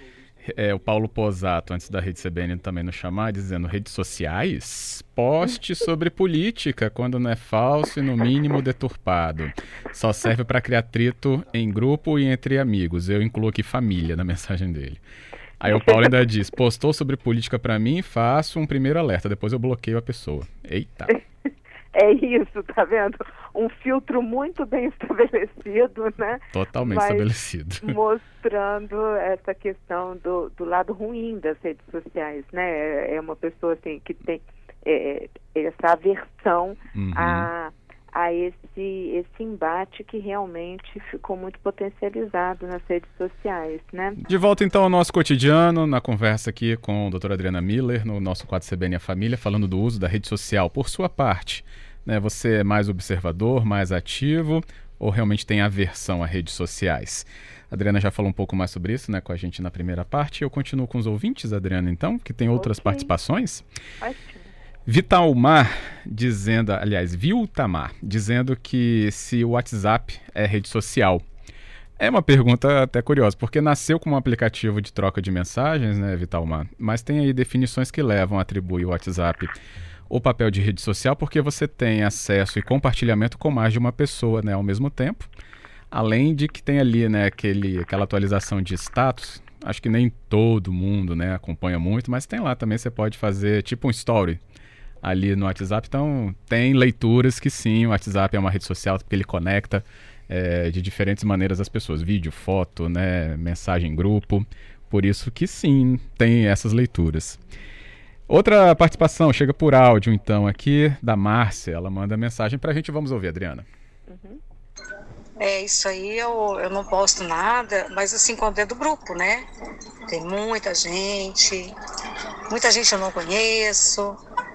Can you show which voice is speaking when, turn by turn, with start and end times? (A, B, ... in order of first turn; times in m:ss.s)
0:00.5-0:15.0 A
0:15.6-0:21.1 A
0:15.7-0:16.1 B
0:21.9-0:27.3 B
0:26.5-0:28.0 A
0:27.8-0:44.2 B
0:36.9-0:37.5 A
0:44.2-1:03.6 A
1:02.5-1:03.1 B
1:04.0-1:04.5 B
1:04.8-1:11.2 A
1:12.0-1:19.5 A
1:20.1-1:25.3 A
1:25.9-1:34.4 A
1:35.0-1:47.4 A
1:48.3-1:53.6 A
1:54.1-1:54.4 B
1:55.4-1:59.4 C
2:00.1-2:01.7 C
2:02.5-2:04.2 C